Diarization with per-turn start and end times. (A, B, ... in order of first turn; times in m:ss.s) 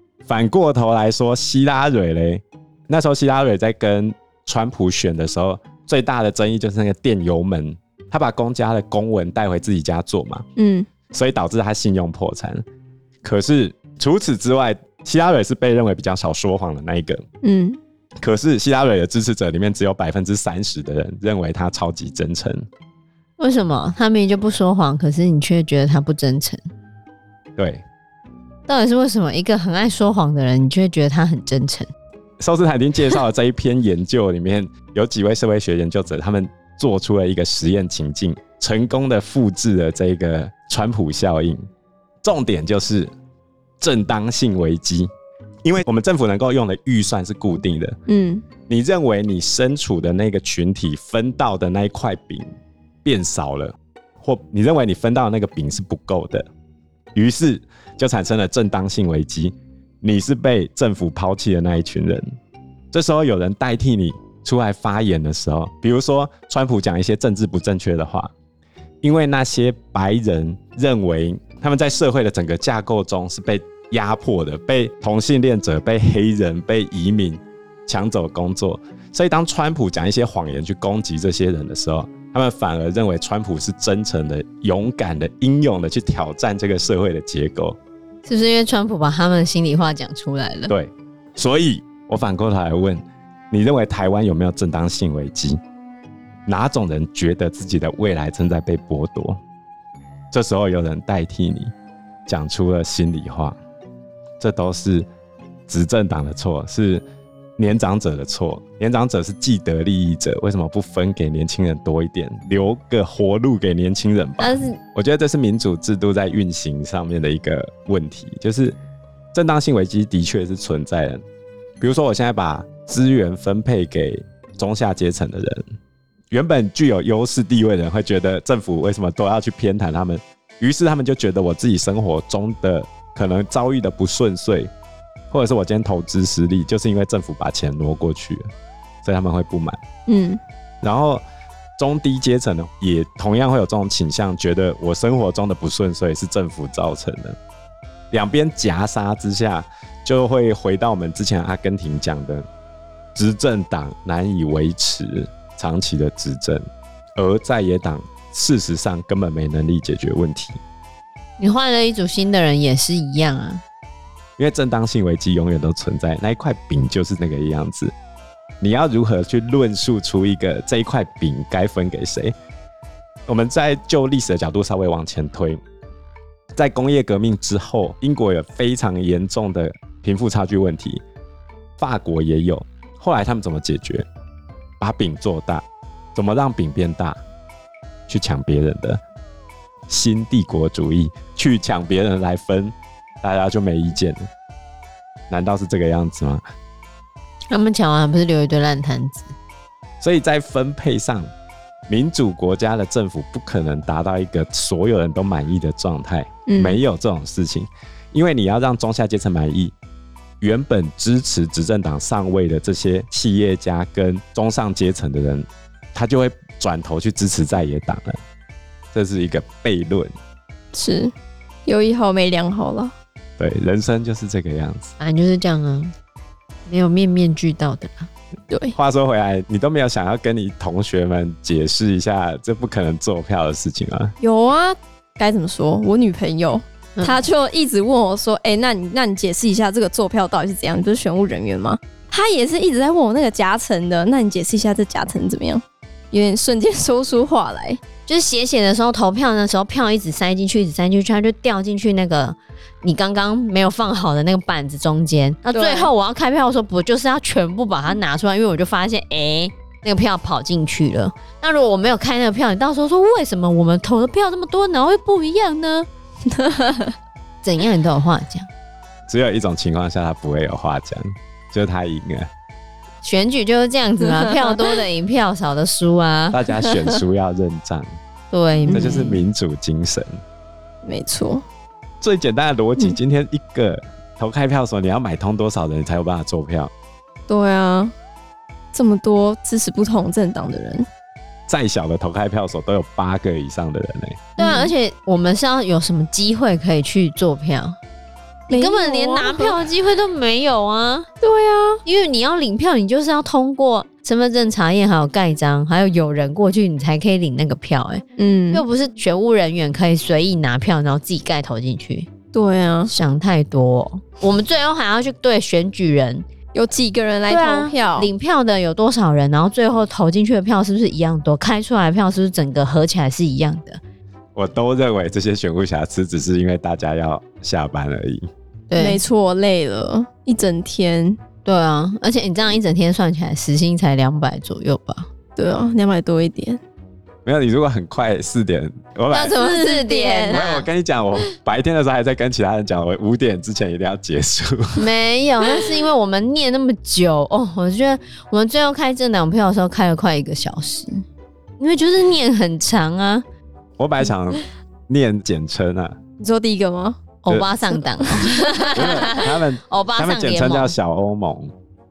0:00.2-0:10.4 A
0:10.6-0:10.9 B
0:11.1-0:12.6 A
0:13.2-0:17.2 A
0:17.4-0:17.8 B
0:18.2-0:22.7 A
0:23.4-0:26.6 C
0:27.6-0:27.8 A
0:28.7-0:31.9 C
0:32.4-0:41.6 A
0:42.2-0:43.1 A
0:43.8-0:45.1 A
0:45.6-0:47.9 A
0:48.1-0:48.4 B
0:48.7-0:52.5 A
0:53.0-0:56.4 A
0:57.1-1:02.2 A
1:02.9-1:08.3 A
1:09.0-1:27.8 A
1:28.2-1:30.7 C
1:30.7-1:35.6 A
1:36.4-1:39.4 A
1:40.3-1:41.7 A
1:42.3-1:43.6 A
1:44.4-1:45.1 A
1:45.7-1:47.0 A
1:47.6-1:58.8 A
1:54.4-1:54.8 C
1:59.3-2:01.2 A
2:01.8-2:05.6 A
2:06.3-2:14.7 A
2:15.3-2:18.5 A
2:19.0-2:19.8 A
2:20.1-2:20.4 B
2:20.8-2:21.2 A
2:21.8-2:27.4 A
2:28.1-2:32.4 A
2:33.1-2:36.6 A
2:37.2-2:40.6 A
2:41.4-2:43.6 C
2:44.4-2:47.9 A
2:48.6-2:52.3 A
2:53.3-2:55.6 A
2:56.5-3:01.0 A
3:01.8-3:04.0 A
3:04.8-3:07.2 A
3:08.1-3:09.0 A
3:09.9-3:14.3 A
3:15.3-3:16.4 A
3:17.5-3:19.3 C
3:20.0-3:21.3 A
3:21.9-3:29.7 A
3:26.5-3:26.8 B
3:30.4-3:38.2 A
3:38.9-3:40.1 A
3:40.7-3:41.1 B
3:41.6-3:42.9 B
3:43.4-3:44.9 A
3:45.0-3:45.9 C
3:46.7-3:48.1 C
3:48.5-3:48.8 B
3:48.8-3:54.1 A
3:54.2-4:07.8 B
4:08.1-4:25.9 C
4:15.5-4:15.9 B
4:26.2-4:26.9 B
4:27.4-4:28.5 C
4:29.1-4:32.3 A
4:33.0-4:36.4 C
4:34.0-4:34.8 B
4:36.3-4:38.0 A
4:36.6-4:37.0 B
4:38.3-4:39.1 C
4:38.7-4:39.1 B
4:38.7-4:40.2 A
4:40.8-4:41.4 B
4:42.0-4:46.7 A
4:47.3-4:47.9 B
4:48.7-4:50.9 B
4:51.5-4:54.2 A
4:54.4-4:57.8 C
4:54.4-4:54.7 B
4:58.5-4:59.6 B
4:58.5-5:01.1 C
5:01.2-5:01.8 B
5:01.8-5:12.1 C
5:08.2-5:08.6 B
5:12.3-5:12.9 B
5:12.9-5:16.2 C
5:16.5-5:18.1 B
5:17.3-5:23.8 C
5:24.3-5:28.2 A
5:28.7-5:29.0 C
5:28.8-5:31.2 B
5:31.4-5:35.1 C
5:35.4-5:36.6 B
5:37.2-5:39.4 A
5:39.1-5:40.6 C
5:39.3-5:40.5 B
5:40.3-5:44.8 A
5:44.8-5:51.0 C
5:51.6-5:53.2 C
5:53.8-5:56.0 A
5:56.2-5:57.0 B
5:57.2-6:00.8 C
5:58.0-5:58.9 B
5:58.1-6:01.5 A